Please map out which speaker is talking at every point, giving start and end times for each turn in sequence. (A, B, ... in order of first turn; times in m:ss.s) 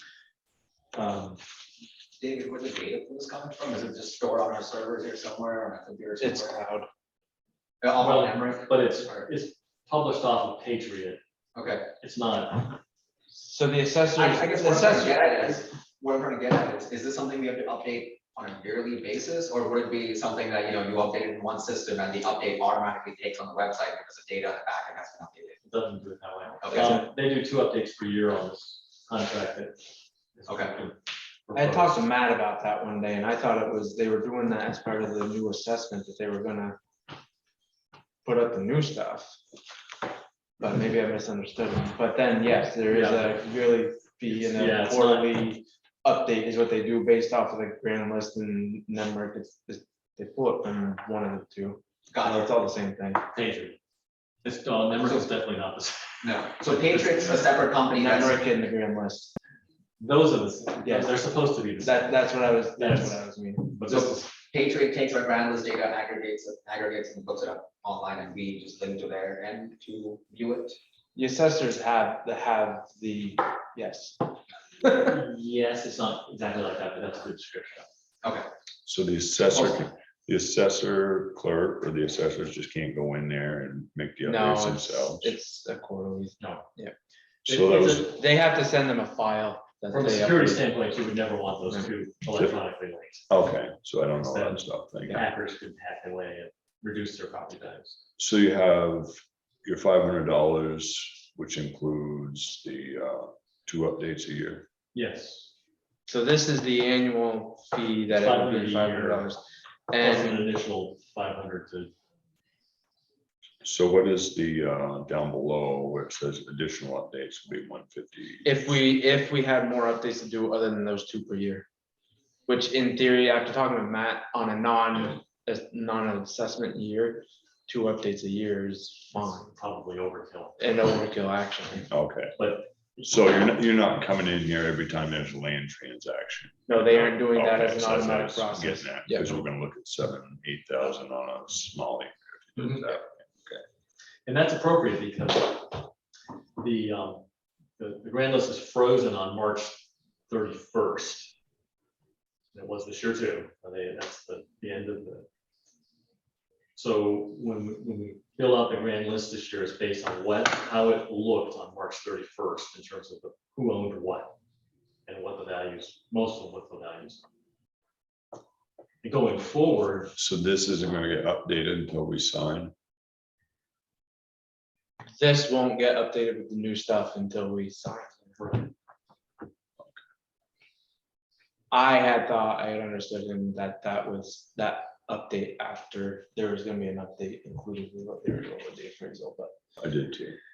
0:00.9-0:01.4 A
0:02.2-0:06.6 B
0:06.2-0:06.9 C
0:07.8-0:09.2 B
0:08.0-0:11.2 A
0:11.5-0:11.9 B
0:12.0-0:12.8 A
0:13.3-0:15.6 C
0:14.2-0:25.6 B
0:25.6-0:32.0 A
0:26.6-0:27.0 B
0:26.7-0:27.0 C
0:30.5-0:30.7 B
0:31.5-0:36.8 C
0:38.2-0:39.4 C
0:40.6-0:53.2 C
0:42.8-0:43.5 A
0:44.3-0:45.4 A
0:52.1-0:52.5 B
0:53.3-0:53.8 A
0:54.4-0:57.2 A
0:56.2-0:58.4 B
0:57.9-0:59.3 C
1:00.0-1:04.3 A
1:00.8-1:01.2 C
1:01.8-1:04.0 C
1:03.9-1:10.8 B
1:11.1-1:15.2 C
1:15.0-1:17.9 A
1:18.8-1:25.4 D
1:24.2-1:26.9 C
1:26.4-1:26.6 A
1:27.5-1:28.1 D
1:27.5-1:28.1 A
1:27.8-1:30.7 C
1:29.9-1:33.2 A
1:33.3-1:35.2 D
1:34.2-1:38.0 A
1:38.2-1:44.7 D
1:44.9-1:45.5 A
1:46.1-1:50.5 C
1:48.1-1:49.3 A
1:50.0-1:51.9 A
1:53.6-1:58.5 D
1:58.4-2:01.6 C
2:02.5-2:09.5 C
2:09.4-2:10.9 A
2:10.6-2:11.9 C
2:11.9-2:12.4 D
2:12.4-2:12.7 A
2:13.0-2:23.6 D
2:16.7-2:19.4 C
2:24.2-2:25.9 A
2:26.6-2:27.2 A
2:27.8-2:31.3 A
2:32.5-2:35.3 A
2:36.8-2:44.4 A
2:45.0-2:47.2 A
2:49.0-2:50.1 A
2:50.2-2:52.7 D
2:55.1-2:58.3 C
2:58.4-2:58.7 A
3:01.7-3:09.5 C
3:09.8-3:10.4 D